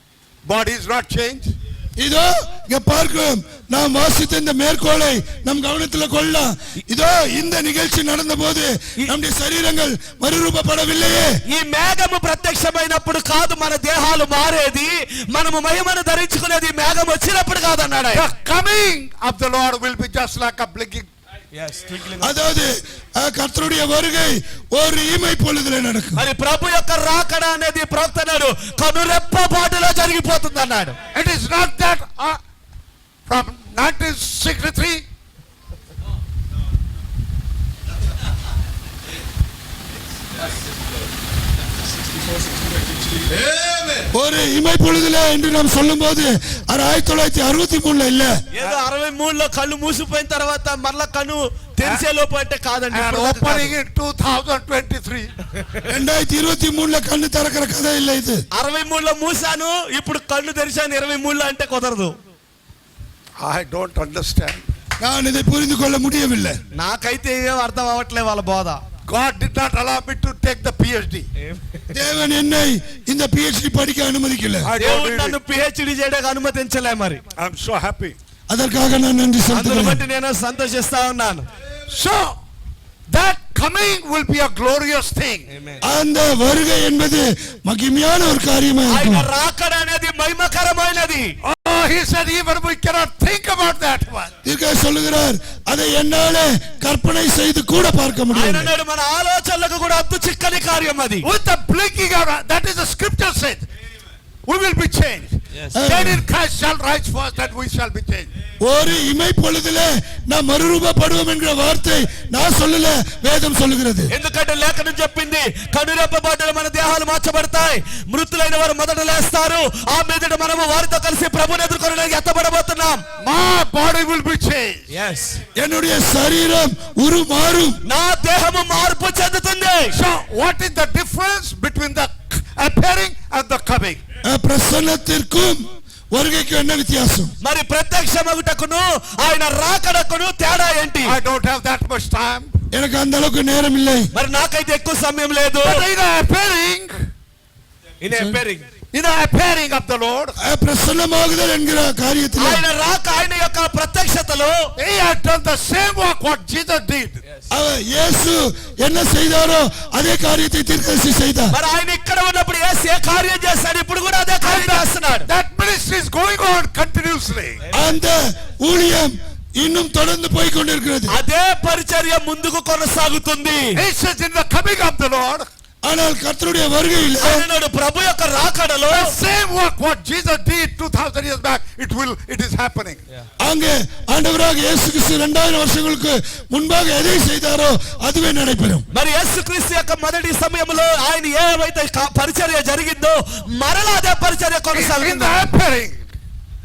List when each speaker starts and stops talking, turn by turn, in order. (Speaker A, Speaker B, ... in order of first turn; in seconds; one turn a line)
Speaker A: 0.5-1.5
Speaker B: 2.0-11.3
Speaker C: 11.4-18.2
Speaker A: 18.1-21.1
Speaker C: 21.5-22.3
Speaker B: 22.2-26.2
Speaker C: 26.1-30.9
Speaker A: 31.1-32.4
Speaker A: 33.3-35.0
Speaker B: 44.1-48.4
Speaker C: 48.5-53.7
Speaker A: 52.9-55.3
Speaker B: 55.9-58.4
Speaker C: 58.5-62.1
Speaker A: 63.4-64.6
Speaker B: 65.0-66.6
Speaker C: 66.8-68.8
Speaker A: 69.1-71.3
Speaker B: 71.9-74.7
Speaker A: 74.6-75.4
Speaker C: 74.8-77.2
Speaker A: 77.4-78.2
Speaker B: 78.5-80.0
Speaker C: 79.5-81.5
Speaker A: 81.9-82.3
Speaker A: 83.1-85.5
Speaker C: 85.5-85.8
Speaker B: 85.8-89.2
Speaker C: 88.9-91.3
Speaker A: 91.4-94.3
Speaker B: 94.4-98.7
Speaker C: 98.3-101.2
Speaker A: 101.2-103.7
Speaker A: 104.5-108.3
Speaker B: 105.7-106.2
Speaker B: 108.6-114.1
Speaker C: 114.1-123.0
Speaker A: 123.2-124.9
Speaker C: 124.9-125.4
Speaker B: 125.5-127.8
Speaker C: 127.8-129.9
Speaker A: 129.9-134.0
Speaker B: 134.2-137.3
Speaker C: 137.4-141.1
Speaker A: 141.0-142.5
Speaker B: 142.7-144.1
Speaker C: 144.1-145.8
Speaker A: 145.6-146.9
Speaker C: 148.0-148.7
Speaker B: 148.1-148.4
Speaker A: 148.9-150.4
Speaker B: 150.4-152.6
Speaker C: 152.4-154.7
Speaker A: 154.8-157.2
Speaker B: 157.5-161.6
Speaker C: 161.5-165.3
Speaker A: 164.4-167.6
Speaker B: 167.7-171.1
Speaker C: 171.1-173.8
Speaker A: 173.8-175.5
Speaker B: 175.8-177.4
Speaker C: 177.2-179.1
Speaker A: 178.9-183.0
Speaker B: 183.4-188.8
Speaker C: 188.9-195.5
Speaker A: 194.7-196.1